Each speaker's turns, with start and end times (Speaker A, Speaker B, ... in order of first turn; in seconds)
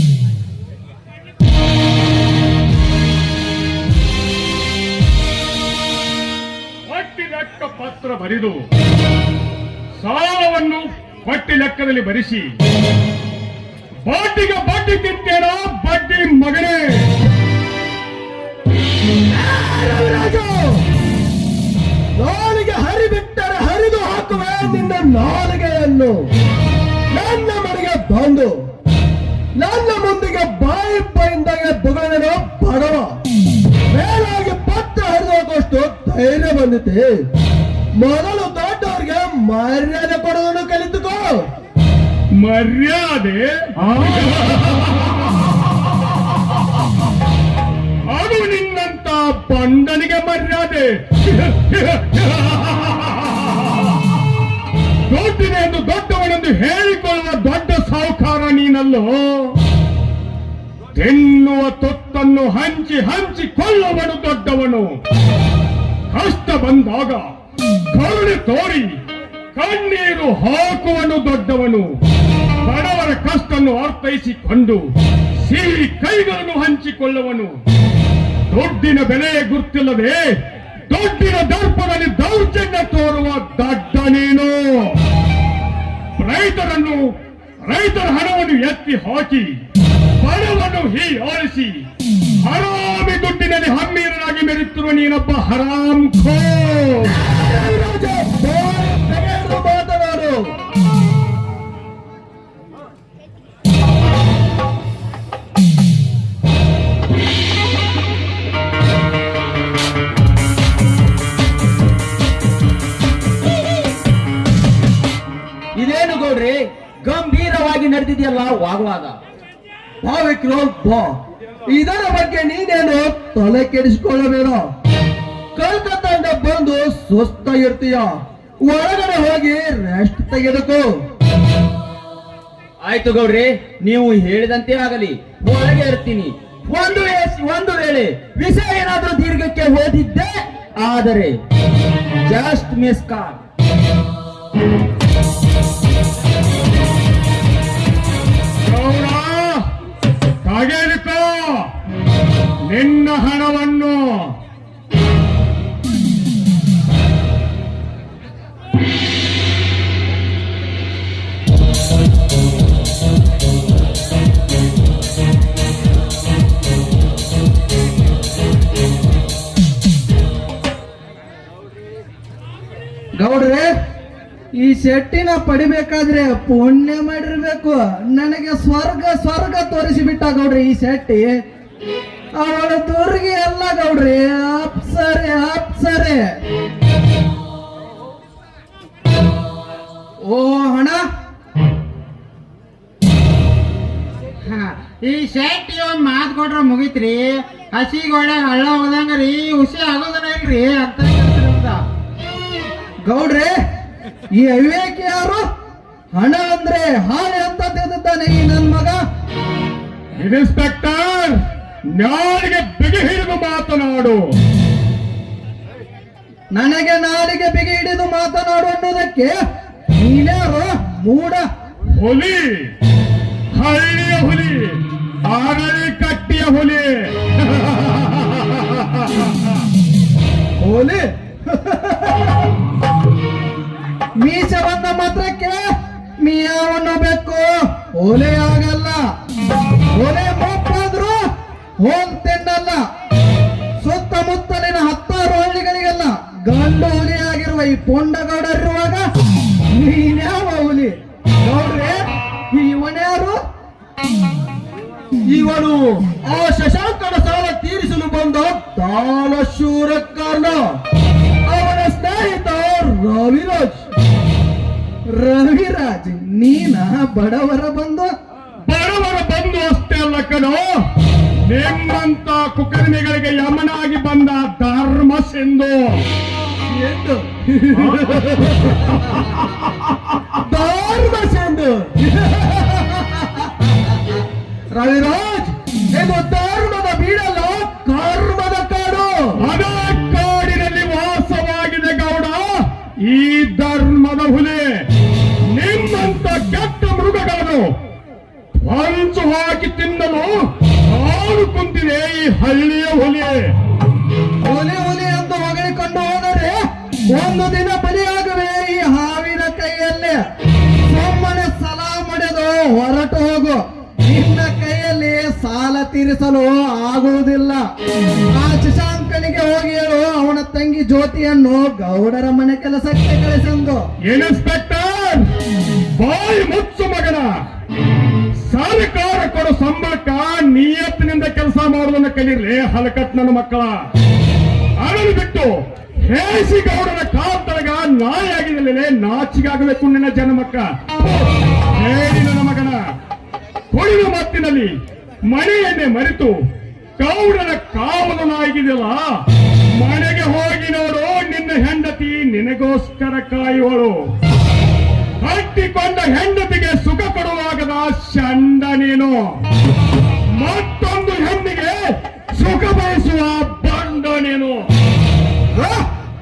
Speaker A: 6.9-8.6, 10.0-12.5, 14.0-17.1, 42.4-45.0, 48.1-53.7, 55.1-59.5, 61.0-65.0, 66.1-67.2, 67.9-68.9, 69.5-71.9, 72.6-74.9, 75.4-77.6, 78.5-80.2, 80.9-85.0, 86.2-87.0, 87.6-89.5, 90.2-91.8, 92.4-97.1, 148.6-149.7, 150.4-151.7, 152.7-154.3, 210.2-211.4, 211.9-214.2, 221.9-222.7, 223.5-229.3, 268.6-270.7, 271.5-276.0, 277.8-278.7, 289.4-294.8, 295.5-297.7, 298.6-303.5, 324.1-325.3, 326.0-327.4, 328.4-333.8, 334.8-342.8, 343.7-344.7, 345.2-346.4, 347.0-349.0, 349.7-354.0, 355.2-359.3, 360.4-361.8, 362.3-364.6
Speaker B: 19.3-20.8, 22.2-26.2, 27.1-28.5, 29.6-33.1, 33.9-37.1, 38.0-41.3, 97.0-100.5, 120.0-121.2, 121.7-124.6, 125.5-128.1, 128.7-130.8, 230.6-232.2, 255.2-260.6, 261.5-263.9, 276.6-279.4, 280.3-284.2, 284.7-289.1
Speaker C: 115.8-119.1, 132.8-141.4, 142.2-143.4
Speaker D: 173.2-173.7, 174.6-181.4, 182.4-186.2, 190.2-191.0, 203.1-203.5, 204.4-205.4, 206.2-209.0, 216.5-219.4, 219.9-221.4, 234.2-235.6, 236.2-239.0, 239.9-241.2, 241.8-242.8, 243.8-249.0, 249.7-253.4, 265.1-268.1, 304.4-306.6, 307.1-310.2, 310.9-317.6, 318.4-323.8, 365.5-365.9
Speaker E: 194.4-201.8